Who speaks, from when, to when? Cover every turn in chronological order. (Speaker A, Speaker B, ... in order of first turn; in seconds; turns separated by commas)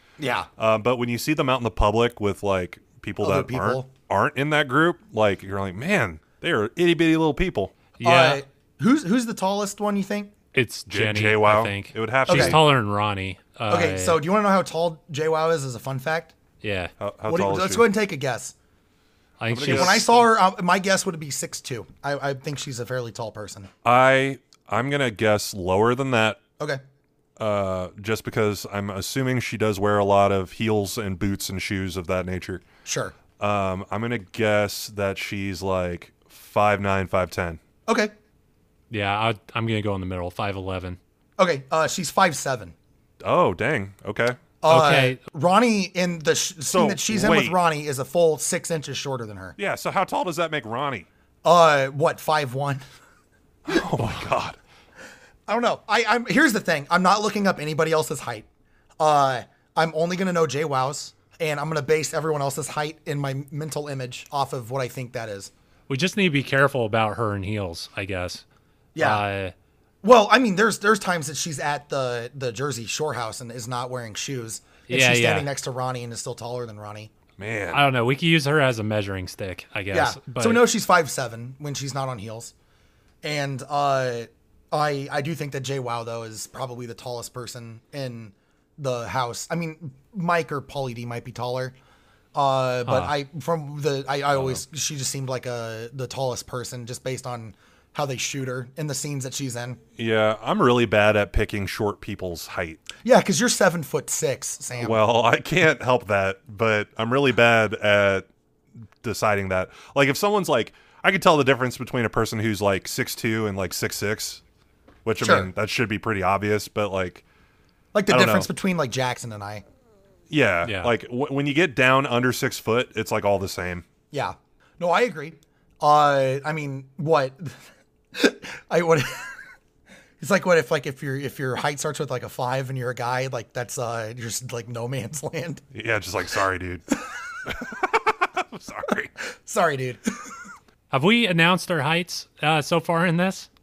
Speaker A: 0.2-0.5, Speaker B: 0.6-7.7, Speaker A: 3.2-3.9, Speaker C: 8.0-8.4, Speaker A: 8.0-10.3, Speaker C: 10.5-14.2, Speaker B: 10.9-12.6, Speaker A: 12.3-12.6, Speaker A: 13.7-16.3, Speaker C: 16.6-16.9, Speaker B: 17.0-17.8, Speaker A: 17.3-18.5, Speaker C: 19.4-20.0, Speaker B: 19.5-20.1, Speaker A: 19.6-23.7, Speaker B: 23.8-26.4, Speaker B: 27.4-32.6, Speaker A: 32.8-33.1, Speaker B: 33.4-37.6, Speaker A: 37.9-38.1, Speaker C: 38.9-41.0, Speaker A: 41.4-42.7, Speaker B: 43.2-44.4, Speaker A: 44.6-49.6, Speaker C: 44.7-45.2, Speaker B: 46.7-47.6, Speaker B: 49.6-51.1, Speaker A: 51.4-52.8, Speaker B: 53.6-54.6, Speaker A: 55.5-58.5, Speaker A: 59.0-65.5, Speaker C: 65.9-68.4, Speaker A: 68.9-69.2, Speaker C: 69.0-69.5, Speaker A: 70.0-77.1, Speaker C: 74.9-75.5, Speaker B: 77.4-77.8, Speaker C: 77.7-80.6, Speaker A: 79.9-82.5, Speaker A: 83.2-91.7, Speaker A: 92.3-99.8, Speaker C: 92.8-93.1, Speaker B: 100.0-102.8, Speaker A: 103.0-105.0, Speaker B: 104.8-108.2, Speaker B: 109.0-114.4, Speaker B: 115.0-117.2, Speaker A: 115.2-115.5, Speaker A: 117.9-119.6, Speaker B: 118.1-118.5, Speaker B: 120.3-123.8, Speaker C: 120.6-120.9, Speaker A: 124.1-127.6, Speaker A: 128.1-129.3, Speaker A: 130.2-135.6, Speaker B: 135.7-136.8, Speaker B: 137.4-139.1, Speaker A: 139.2-140.4, Speaker C: 140.9-143.5